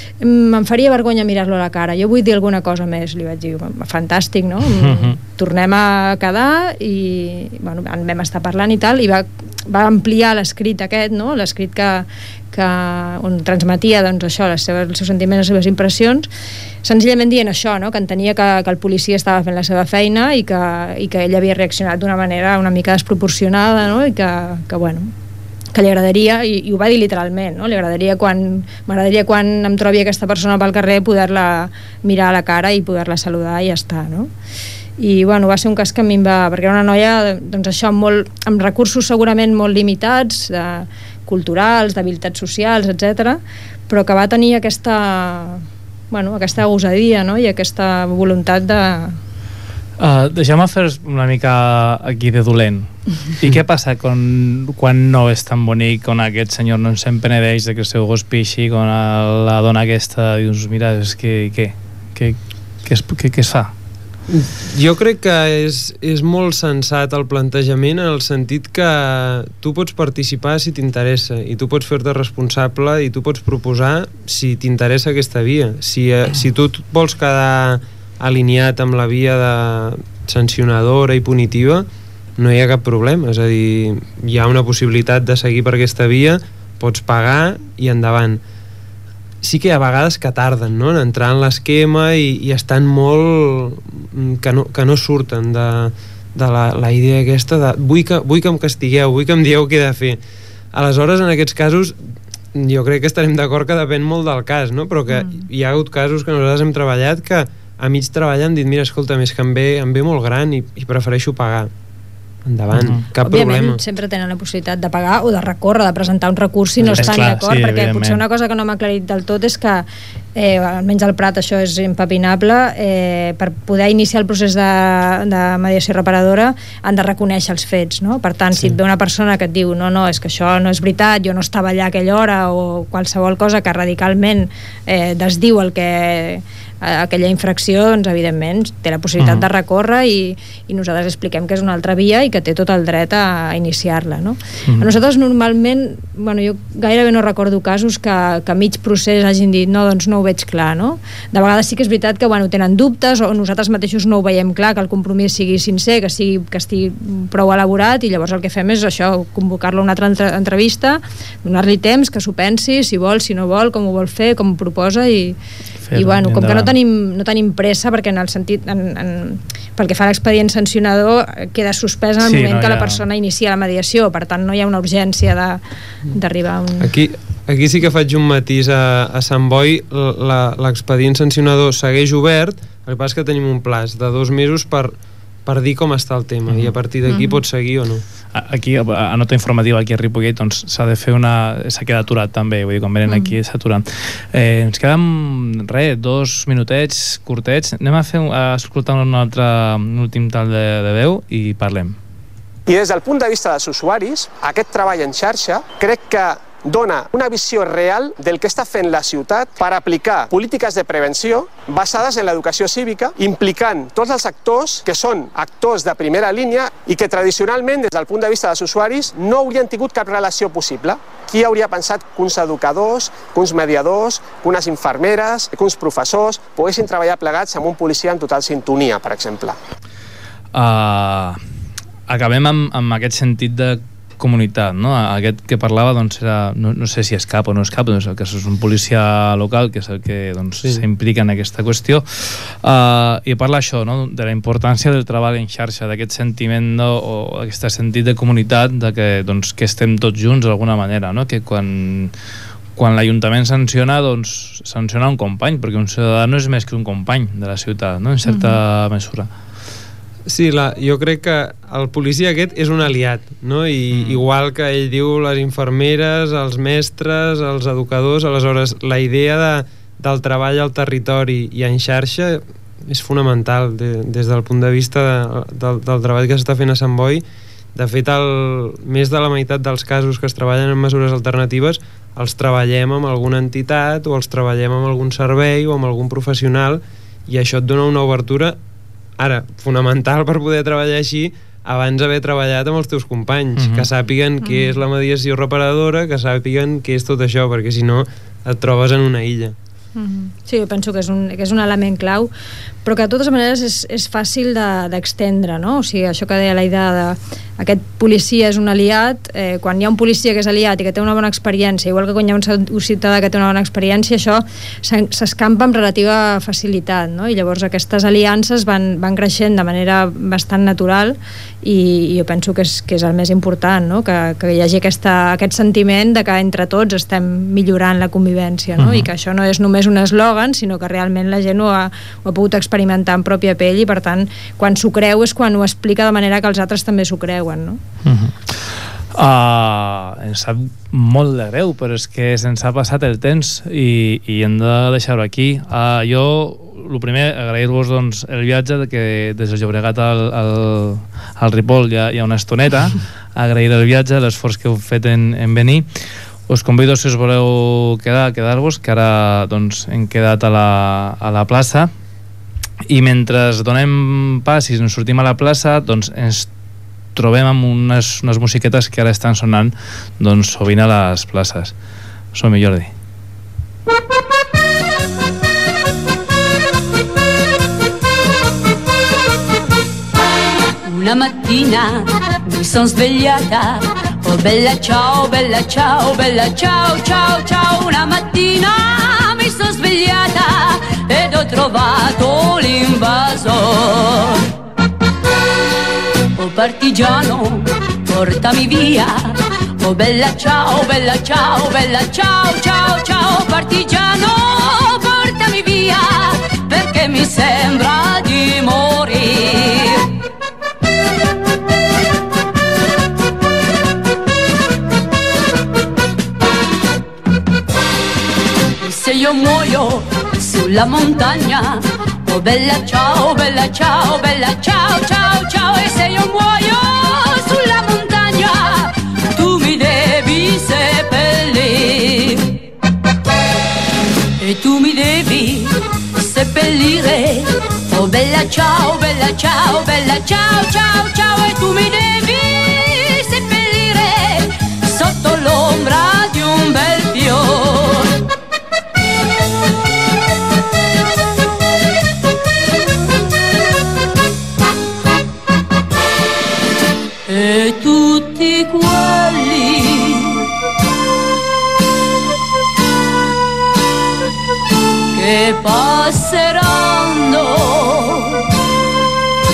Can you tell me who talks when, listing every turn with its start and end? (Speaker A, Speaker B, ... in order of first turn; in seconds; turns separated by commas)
Speaker A: 0.2-16.3, Speaker B: 4.7-5.2, Speaker A: 16.8-25.1, Speaker A: 25.7-34.3, Speaker A: 35.0-49.2, Speaker B: 50.0-63.7, Speaker C: 64.3-81.9, Speaker C: 82.4-88.4, Speaker C: 89.4-100.2, Speaker C: 100.7-102.0, Speaker C: 102.5-111.7, Speaker C: 112.4-113.8, Speaker B: 112.7-113.0, Speaker A: 113.2-165.4, Speaker B: 116.9-118.2, Speaker B: 139.2-139.4, Speaker B: 165.9-166.7, Speaker A: 165.9-175.6, Speaker B: 172.2-173.0, Speaker A: 176.1-176.9, Speaker C: 176.8-184.9, Speaker C: 185.4-188.0, Speaker A: 187.1-187.4, Speaker B: 188.3-201.9, Speaker A: 193.1-193.3, Speaker D: 202.7-229.6, Speaker B: 230.5-231.4, Speaker B: 232.1-252.1, Speaker B: 252.8-259.3, Speaker A: 258.3-258.5, Speaker C: 260.3-277.2, Speaker B: 263.9-264.2, Speaker C: 277.7-288.6, Speaker C: 289.2-299.5, Speaker B: 293.6-293.9, Speaker A: 294.4-294.7, Speaker A: 299.9-302.3, Speaker A: 302.8-337.8, Speaker B: 328.8-329.1, Speaker B: 338.0-355.9, Speaker B: 356.5-361.9, Speaker B: 362.9-366.5, Speaker B: 367.1-371.7, Speaker B: 372.3-372.9, Speaker E: 380.8-394.4, Speaker E: 396.4-410.1, Speaker E: 418.8-432.6, Speaker E: 434.4-448.1, Speaker E: 457.3-460.5, Speaker E: 465.1-468.4